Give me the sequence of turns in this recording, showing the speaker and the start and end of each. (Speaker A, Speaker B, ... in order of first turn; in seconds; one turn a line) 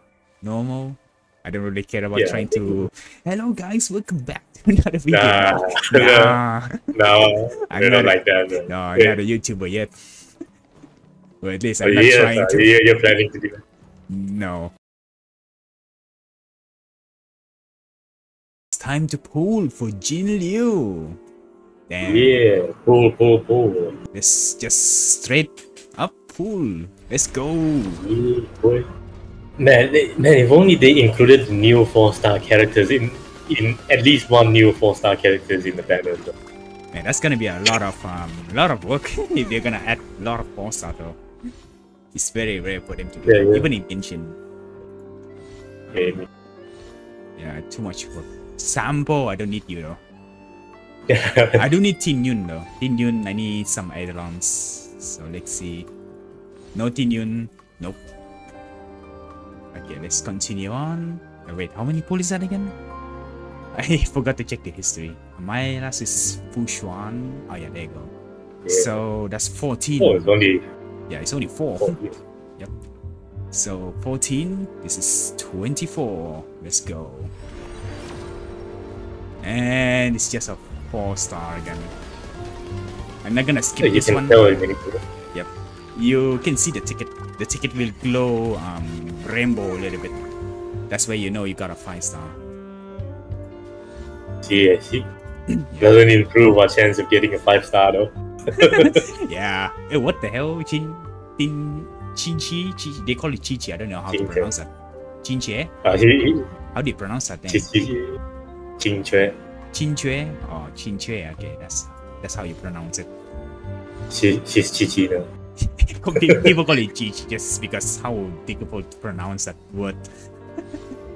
Speaker A: 0.4-6.8
Speaker B: 2.1-2.8
Speaker B: 5.1-6.4
Speaker B: 6.9-9.1
Speaker A: 7.7-8.2
Speaker A: 8.7-9.9
Speaker A: 11.4-12.7
Speaker B: 11.8-13.6
Speaker A: 14.1-14.7
Speaker A: 18.7-21.2
Speaker A: 21.9-22.4
Speaker B: 22.0-24.0
Speaker A: 24.1-28.1
Speaker B: 28.0-28.9
Speaker B: 29.6-36.3
Speaker A: 36.9-41.2
Speaker A: 42.1-44.4
Speaker B: 43.3-43.6
Speaker B: 45.9-46.3
Speaker A: 47.4-50.0
Speaker B: 51.1-51.6
Speaker A: 51.5-55.9
Speaker A: 56.7-58.0
Speaker A: 59.7-62.7
Speaker A: 63.7-68.1
Speaker B: 68.6-68.9
Speaker A: 68.7-70.3
Speaker B: 70.0-70.6
Speaker A: 71.1-72.0
Speaker B: 71.8-72.2
Speaker A: 73.5-77.3
Speaker A: 79.4-81.9
Speaker A: 83.2-84.4
Speaker B: 83.8-85.0
Speaker A: 85.3-90.1
Speaker A: 90.9-92.4
Speaker B: 94.4-95.0
Speaker A: 95.5-96.0
Speaker B: 95.8-99.0
Speaker A: 98.5-104.7
Speaker B: 104.1-104.5
Speaker A: 105.2-105.7
Speaker B: 105.8-106.5
Speaker A: 106.7-107.7
Speaker B: 107.5-108.1
Speaker B: 108.8-109.3
Speaker A: 109.7-113.1
Speaker B: 114.1-115.3
Speaker A: 115.6-120.1